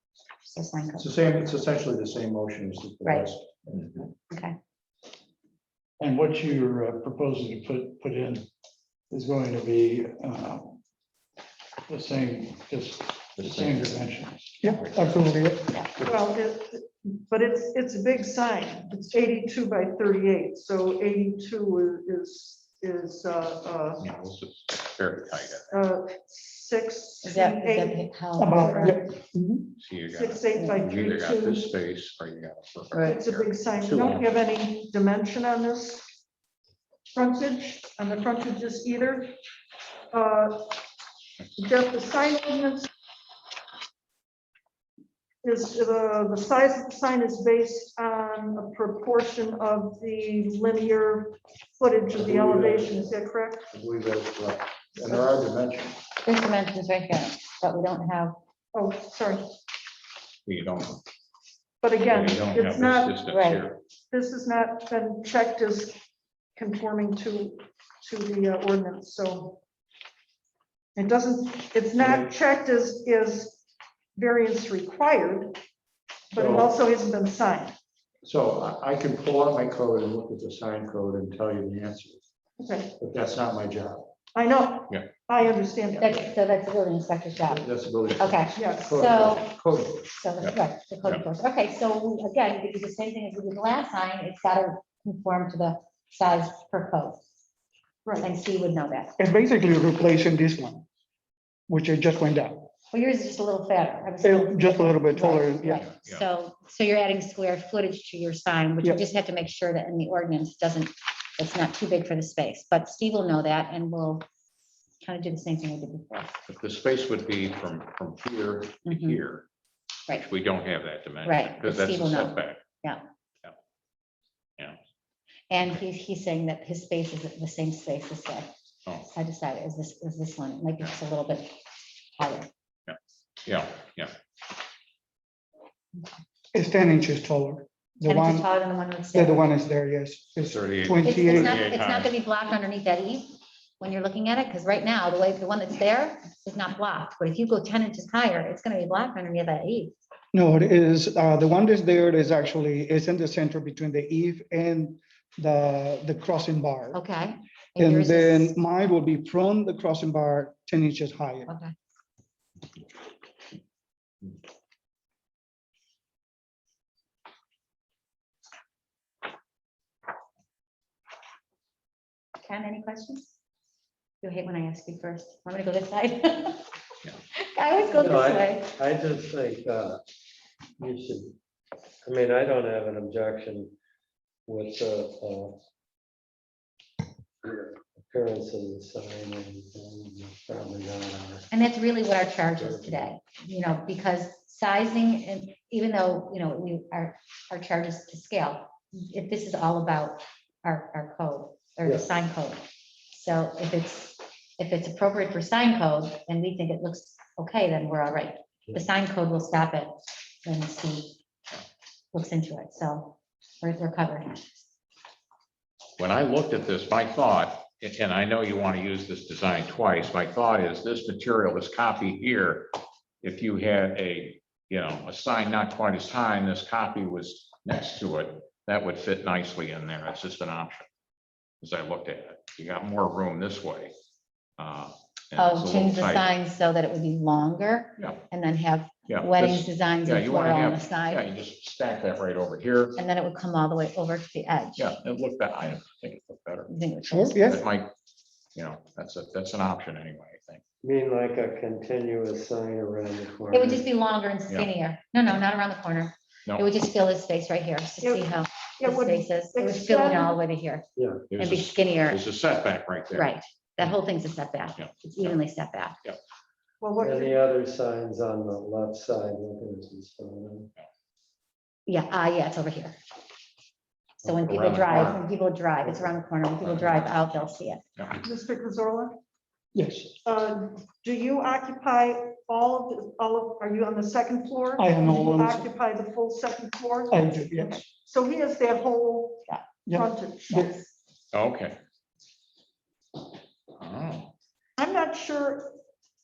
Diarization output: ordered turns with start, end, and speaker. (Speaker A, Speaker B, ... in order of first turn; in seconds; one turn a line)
Speaker A: 0.4-1.1
Speaker B: 1.0-3.9
Speaker A: 3.0-3.3
Speaker A: 4.3-4.5
Speaker C: 6.0-8.5
Speaker C: 9.1-10.8
Speaker C: 11.9-14.8
Speaker D: 13.4-13.8
Speaker E: 14.6-15.7
Speaker F: 16.0-24.0
Speaker D: 24.0-25.7
Speaker F: 25.7-29.0
Speaker A: 27.2-29.0
Speaker E: 28.4-29.7
Speaker D: 29.8-34.3
Speaker F: 30.1-31.7
Speaker A: 30.5-30.8
Speaker A: 32.9-33.2
Speaker F: 33.0-36.0
Speaker F: 37.1-39.4
Speaker F: 40.1-40.8
Speaker F: 41.5-42.9
Speaker F: 45.4-53.7
Speaker B: 52.1-53.0
Speaker B: 53.7-56.0
Speaker A: 56.2-58.4
Speaker F: 58.7-59.5
Speaker D: 60.5-61.0
Speaker F: 61.8-63.2
Speaker D: 62.0-63.8
Speaker A: 63.3-63.6
Speaker F: 64.1-66.0
Speaker F: 66.5-69.6
Speaker F: 71.0-73.6
Speaker F: 74.2-75.6
Speaker F: 76.3-77.7
Speaker B: 76.4-76.7
Speaker B: 78.2-82.2
Speaker F: 82.6-82.9
Speaker B: 83.0-84.1
Speaker F: 84.3-86.2
Speaker A: 86.0-97.2
Speaker B: 87.5-90.1
Speaker F: 88.5-88.9
Speaker D: 90.4-91.2
Speaker F: 98.0-98.3
Speaker A: 98.2-99.1
Speaker E: 99.2-100.8
Speaker E: 101.7-102.7
Speaker A: 102.9-114.2
Speaker E: 104.2-105.8
Speaker D: 105.7-106.2
Speaker A: 115.0-116.4
Speaker D: 116.5-119.4
Speaker A: 118.8-119.2
Speaker D: 120.1-122.6
Speaker A: 121.2-123.0
Speaker A: 125.5-128.5
Speaker A: 129.0-131.6
Speaker A: 132.2-132.5
Speaker D: 132.9-134.1
Speaker E: 136.5-138.5
Speaker A: 138.0-139.4
Speaker E: 139.1-141.6
Speaker D: 140.4-142.1
Speaker A: 141.0-149.9
Speaker E: 150.3-157.0
Speaker A: 156.9-158.5
Speaker E: 157.8-161.5
Speaker A: 161.5-161.7
Speaker A: 172.4-173.3
Speaker A: 174.2-176.6
Speaker A: 177.3-178.7
Speaker G: 177.9-180.0
Speaker G: 180.8-181.3
Speaker G: 182.0-183.7
Speaker G: 184.4-185.6
Speaker G: 187.4-191.4
Speaker A: 191.5-211.2
Speaker G: 192.6-193.0
Speaker A: 212.1-214.5
Speaker D: 216.0-230.9
Speaker D: 231.6-233.9
Speaker D: 234.6-236.3
Speaker A: 235.3-241.2
Speaker D: 239.1-243.0
Speaker A: 243.0-244.9
Speaker D: 244.8-246.8
Speaker A: 246.7-247.5
Speaker E: 247.1-247.6
Speaker D: 247.3-247.9
Speaker D: 248.5-250.6
Speaker G: 250.8-253.8
Speaker A: 253.5-262.2
Speaker F: 258.0-260.4
Speaker G: 260.9-261.2
Speaker D: 261.3-263.3
Speaker A: 263.1-266.0
Speaker D: 264.8-265.4
Speaker F: 266.8-267.4
Speaker G: 267.0-270.7
Speaker A: 271.9-272.9
Speaker A: 274.2-277.8
Speaker D: 274.3-275.2
Speaker D: 276.6-278.2
Speaker F: 278.2-279.2
Speaker E: 279.7-280.1
Speaker F: 280.2-290.9
Speaker E: 284.8-285.6
Speaker E: 287.1-287.8
Speaker E: 289.9-290.7
Speaker D: 291.3-291.8
Speaker D: 293.8-294.3
Speaker F: 294.8-295.8